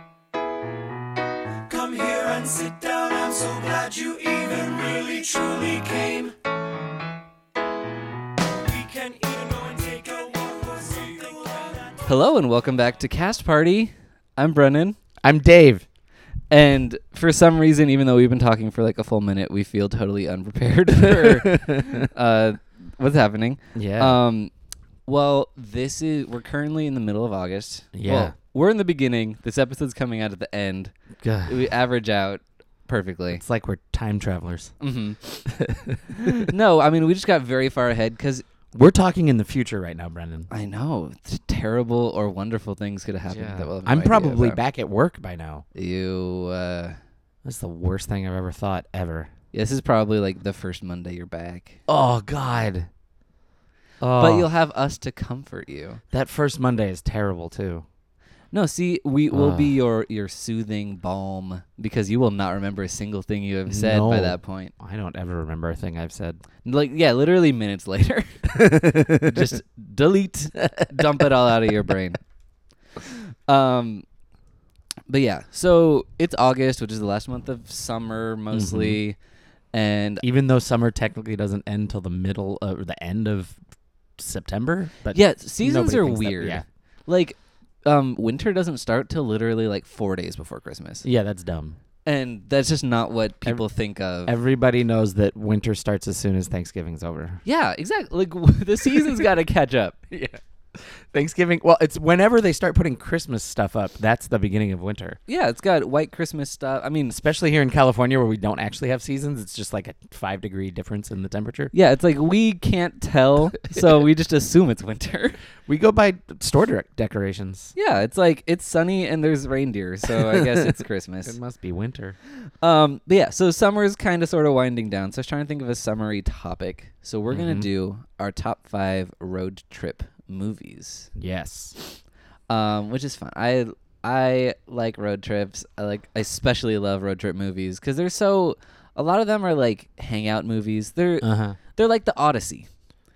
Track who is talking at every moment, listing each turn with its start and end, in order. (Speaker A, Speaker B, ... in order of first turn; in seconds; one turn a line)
Speaker A: 1.7-6.3
Speaker A: 8.9-11.5
Speaker B: 12.0-15.0
Speaker C: 15.2-15.8
Speaker B: 16.5-24.5
Speaker C: 21.0-22.1
Speaker C: 23.7-24.2
Speaker B: 25.1-30.9
Speaker C: 27.9-28.3
Speaker C: 31.2-31.6
Speaker B: 31.4-33.4
Speaker C: 33.3-34.7
Speaker B: 34.8-35.5
Speaker C: 35.5-36.5
Speaker B: 36.1-38.4
Speaker C: 38.7-40.5
Speaker B: 40.5-44.6
Speaker C: 43.3-45.6
Speaker B: 45.7-47.0
Speaker C: 47.4-49.3
Speaker B: 49.5-51.8
Speaker C: 51.9-52.9
Speaker C: 54.0-54.5
Speaker B: 54.2-56.0
Speaker C: 56.1-57.8
Speaker B: 58.5-64.7
Speaker C: 59.3-59.8
Speaker C: 63.7-66.4
Speaker B: 66.6-68.6
Speaker C: 68.5-69.5
Speaker B: 69.2-72.2
Speaker C: 70.8-71.2
Speaker B: 73.0-74.0
Speaker B: 75.1-79.2
Speaker C: 78.5-79.0
Speaker B: 79.7-80.2
Speaker C: 80.2-83.6
Speaker C: 84.2-86.6
Speaker B: 85.1-91.0
Speaker C: 91.0-91.8
Speaker B: 92.0-94.3
Speaker C: 94.2-97.4
Speaker B: 97.4-100.0
Speaker C: 98.9-99.2
Speaker C: 100.1-105.2
Speaker B: 105.3-107.2
Speaker C: 107.1-111.7
Speaker B: 111.7-115.4
Speaker C: 115.7-117.7
Speaker B: 117.7-121.3
Speaker C: 120.3-120.7
Speaker C: 121.2-122.2
Speaker B: 122.4-131.1
Speaker C: 127.3-127.7
Speaker C: 131.2-131.8
Speaker B: 132.5-142.7
Speaker C: 141.2-141.6